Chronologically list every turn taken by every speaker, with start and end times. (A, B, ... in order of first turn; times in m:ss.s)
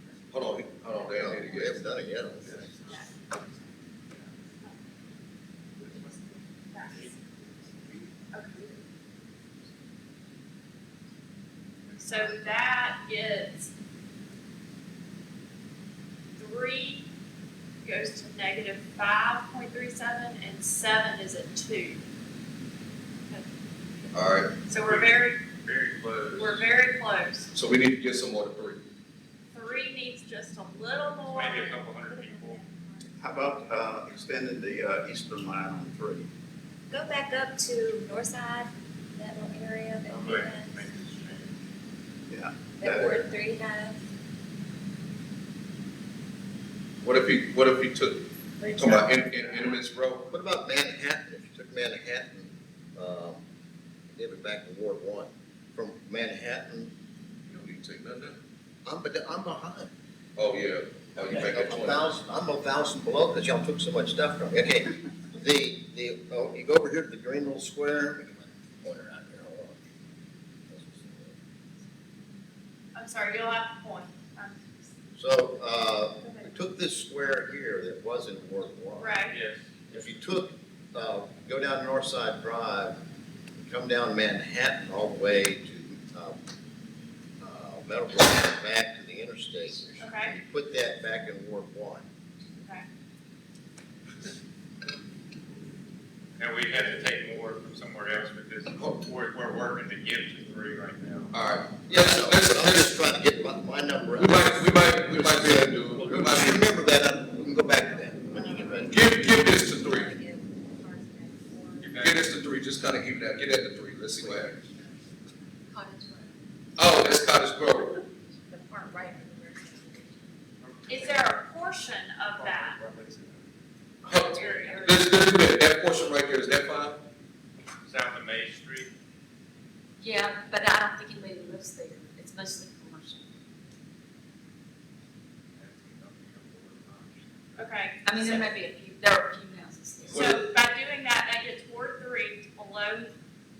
0:00.3-0:01.9 A
0:01.1-0:02.6 B
0:06.7-0:07.1 C
0:08.3-0:08.6 C
0:12.0-0:13.7 C
0:12.2-0:12.6 D
0:16.4-0:17.1 C
0:17.8-0:22.0 C
0:24.1-0:24.6 A
0:24.7-0:25.4 C
0:24.7-0:26.7 D
0:26.4-0:27.5 C
0:27.5-0:28.8 A
0:29.5-0:31.8 C
0:31.3-0:32.6 D
0:31.6-0:33.8 E
0:33.2-0:36.3 F
0:36.9-0:41.0 E
0:40.1-0:41.6 D
0:42.3-0:43.3 F
0:42.7-0:44.0 E
0:47.0-0:50.3 A
0:48.7-0:49.0 C
0:50.3-0:53.4 B
0:54.1-0:56.9 B
0:57.5-0:58.4 A
0:58.8-0:59.9 B
1:00.4-1:02.0 A
1:01.3-1:09.8 B
1:10.7-1:11.4 B
1:13.0-1:14.8 C
1:15.2-1:19.2 B
1:19.0-1:19.3 C
1:19.3-1:19.7 D
1:19.9-1:23.0 B
1:23.6-1:26.4 B
1:27.4-1:32.1 B
1:30.0-1:30.4 C
1:36.4-1:41.3 D
1:38.7-1:39.0 A
1:41.3-1:43.0 A
1:41.9-1:49.0 B
1:44.2-1:46.6 A
1:48.4-1:52.3 E
1:48.9-1:50.2 A
1:51.8-1:52.2 D
1:52.0-1:54.6 A
1:54.2-1:55.0 E
1:55.7-1:56.3 G
1:56.8-1:58.0 A
1:58.5-2:00.5 E
2:00.6-2:01.4 D
2:00.9-2:02.8 C
2:02.5-2:03.4 D
2:04.0-2:07.0 A
2:04.3-2:05.0 C
2:07.8-2:08.9 D
2:10.0-2:13.2 G
2:15.6-2:17.7 D
2:17.8-2:18.2 C
2:18.0-2:20.3 G
2:20.1-2:20.5 A
2:20.2-2:22.5 C